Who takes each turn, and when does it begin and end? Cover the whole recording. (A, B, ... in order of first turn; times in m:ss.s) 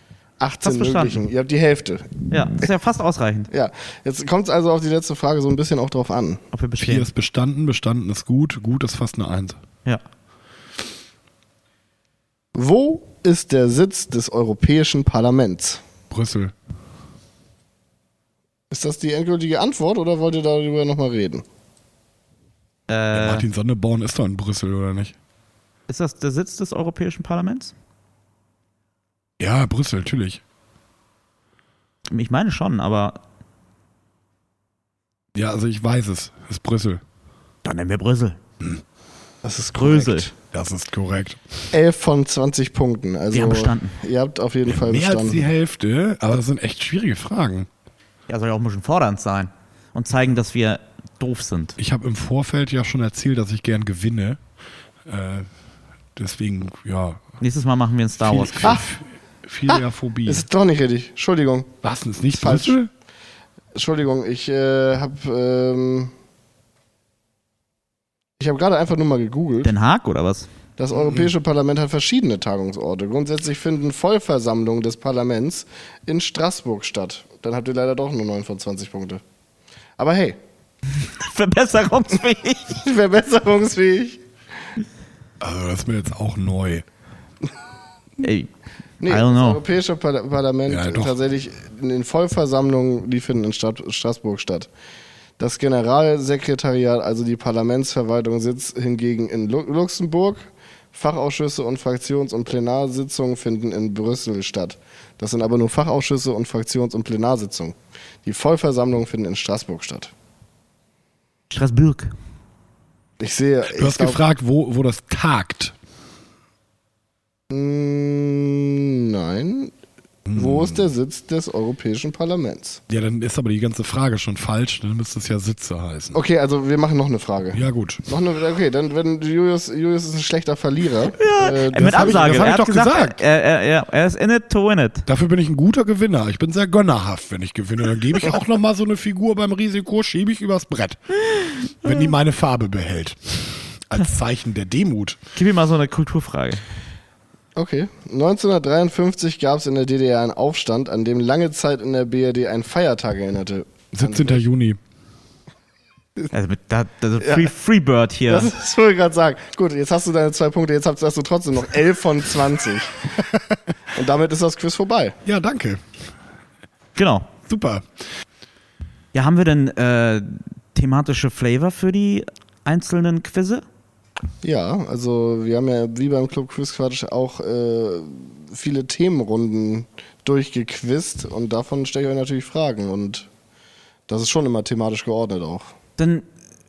0:00.4-0:02.7 A
0:00.6-0:01.2 B
0:02.3-0:03.5 B
0:03.5-0:06.4 A
0:06.5-0:07.1 B
0:06.8-0:09.6 C
0:12.5-0:15.8 A
0:16.1-0:16.5 C
0:18.7-0:21.4 A
0:22.9-0:23.4 B
0:23.1-0:25.2 C
0:25.9-0:27.8 B
0:29.4-0:30.4 C
0:32.1-0:33.2 B
0:35.3-0:37.0 C
0:37.6-0:38.4 B
0:39.4-0:40.3 A
0:39.8-0:40.3 B
0:40.5-0:41.6 C
0:41.7-0:45.4 A
0:43.3-0:44.0 B
0:44.7-0:47.7 C
0:48.3-0:51.8 B
0:51.8-0:54.4 C
0:55.0-0:55.5 C
0:56.2-0:57.3 C
0:57.4-0:58.8 B
0:58.2-1:00.5 C
1:00.3-1:01.8 A
1:01.8-1:02.9 C
1:02.3-1:02.8 A
1:03.8-1:06.1 A
1:08.4-1:09.7 A
1:09.6-1:10.5 B
1:10.8-1:19.2 A
1:10.9-1:11.3 C
1:20.0-1:20.4 A
1:20.9-1:22.8 B
1:22.8-1:24.2 A
1:25.4-1:26.8 C
1:28.2-1:28.5 B
1:29.0-1:34.7 A
1:29.1-1:29.6 B
1:30.7-1:31.2 C
1:35.4-1:50.1 A
1:51.5-1:52.2 B
1:53.2-1:54.2 A
1:53.7-1:55.8 C
1:57.5-1:59.7 A
2:00.3-2:00.9 C
2:00.4-2:02.8 A
2:02.9-2:06.2 C
2:06.1-2:12.5 A
2:07.5-2:08.1 C
2:11.2-2:15.1 B
2:11.7-2:13.2 C
2:15.1-2:25.2 C
2:25.4-2:26.6 B
2:27.6-2:34.4 A
2:33.9-2:34.8 C
2:36.3-2:38.5 B
2:37.2-2:37.5 A
2:38.3-2:43.2 A
2:43.9-2:45.2 A
2:45.2-2:46.0 C
2:47.0-2:47.3 B
2:47.5-2:47.9 C
2:49.1-2:53.6 B
2:54.4-3:03.3 A
3:04.1-3:05.7 A
3:06.0-3:06.3 B